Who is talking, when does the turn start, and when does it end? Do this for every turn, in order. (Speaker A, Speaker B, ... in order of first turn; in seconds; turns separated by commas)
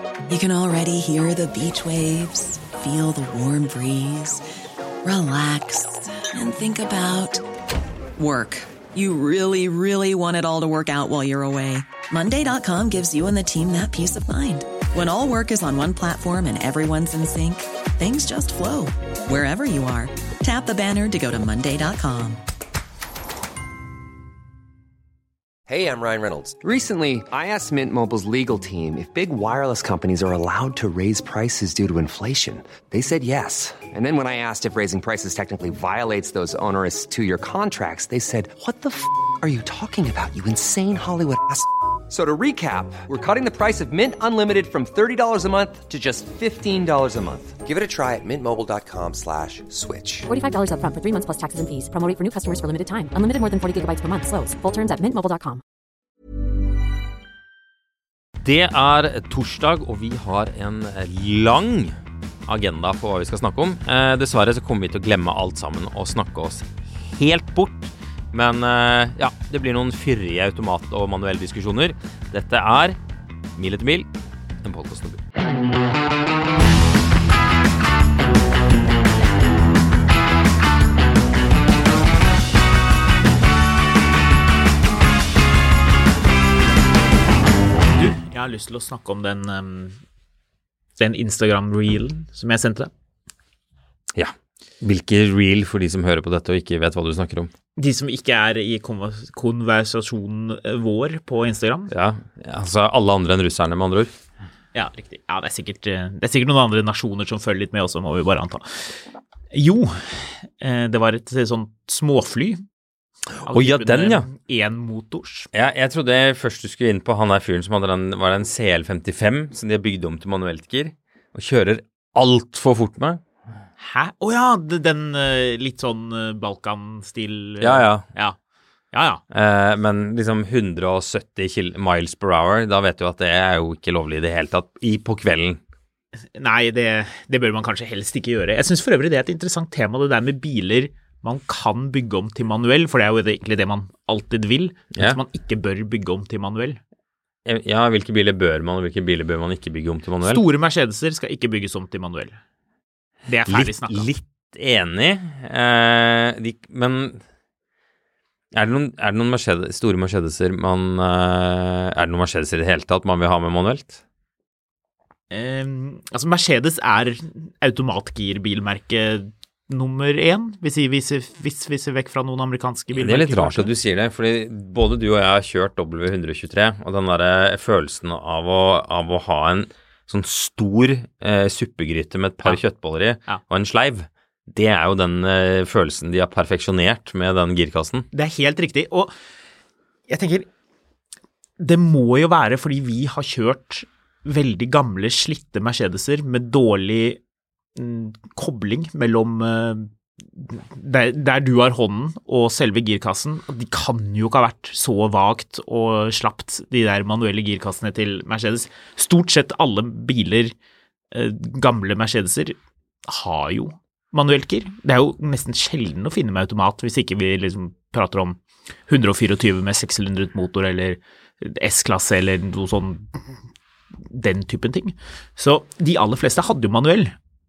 Speaker A: 0.3-4.4, Speaker A: 5.0-7.4, Speaker A: 8.2-22.4, Speaker B: 25.7-50.3, Speaker C: 50.3-55.6, Speaker D: 58.4-73.0, Speaker D: 73.5-74.1, Speaker D: 74.6-75.2, Speaker E: 87.9-90.0, Speaker E: 91.0-92.9, Speaker D: 94.1-97.5, Speaker E: 97.8-101.9, Speaker D: 101.9-104.1, Speaker E: 104.7-108.9, Speaker E: 109.5-112.6, Speaker D: 113.4-114.3, Speaker E: 113.5-115.5, Speaker D: 115.5-123.2, Speaker E: 123.8-128.3, Speaker D: 127.6-128.1, Speaker E: 128.9-129.2, Speaker D: 129.3-135.6, Speaker E: 136.3-146.8, Speaker D: 144.9-145.2, Speaker D: 147.4-150.4, Speaker E: 150.2-152.4, Speaker E: 153.3-154.1, Speaker D: 153.5-157.2, Speaker D: 158.5-164.0, Speaker E: 165.3-173.7, Speaker D: 172.9-188.1, Speaker E: 188.1-189.1, Speaker E: 190.1-190.5, Speaker E: 191.6-197.2, Speaker E: 197.8-210.5, Speaker E: 211.1-223.2, Speaker E: 224.0-227.1